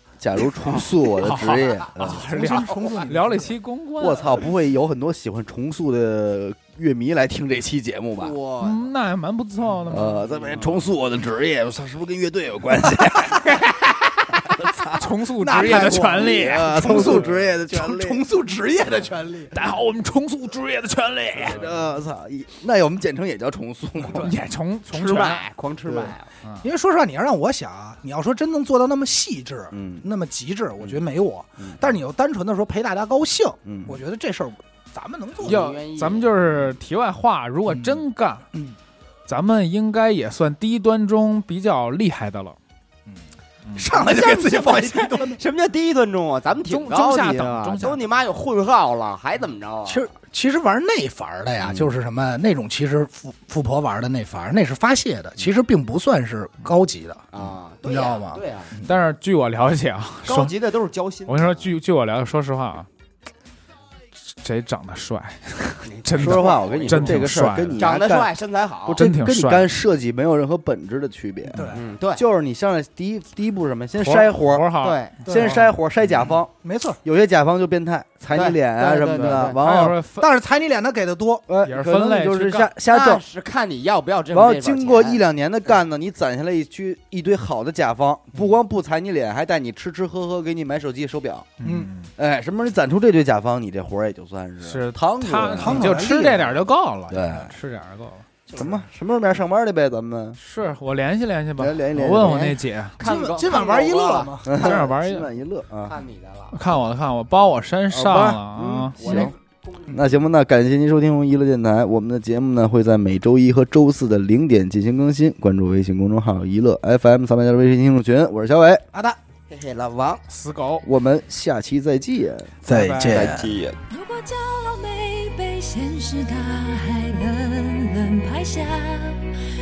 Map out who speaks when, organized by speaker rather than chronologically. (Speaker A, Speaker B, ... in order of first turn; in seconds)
Speaker A: 0.2-2.3, 4.0-8.4, 9.9-13.6, 14.4-18.2, 21.4-24.4, 25.9-26.1, 29.7-30.1, 33.7-34.0, 66.2-74.7, 75.2-80.0, 81.5-83.2, 84.3-91.5, 92.2-96.0, 97.1-97.5, 98.5-100.4, 101.6-102.5, 104.4-106.0, 107.9-109.3, 109.9-118.9, 120.8-122.5
Speaker B: 1.2-4.4, 8.6-10.8, 14.9-17.1, 19.5-21.6, 24.1-25.5, 35.4-38.5, 39.3-42.6, 46.7-48.0, 58.8-60.5, 61.3-62.9, 64.4-67.8, 69.0-69.7, 74.0-75.7, 79.1-80.3, 81.6-82.7, 91.6-92.1, 94.6-98.3, 100.4-103.0, 104.5-105.3, 106.5-109.3, 120.3-120.9, 122.7-123.3
Speaker C: 2.1-3.5, 15.4-19.6, 26.6-35.6, 37.7-38.0, 43.8-45.4, 49.9-57.2, 57.9-58.9, 71.5-71.8, 75.3-75.7, 76.6-77.0, 80.2-81.5, 91.6-91.9, 95.6-96.6, 103.0-104.7, 118.9-119.2, 122.7-123.5
Speaker D: 8.2-8.8, 24.9-26.3, 35.4-36.3, 43.9-50.1, 57.3-58.7, 60.3-61.7, 65.9-69.0, 71.7-72.2, 74.8-75.2, 78.3-79.6, 82.9-85.8, 98.5-98.8, 102.2-104.3, 105.9-106.6, 109.0-110.2, 119.5-120.2, 123.1-123.8
Speaker E: 123.9-129.3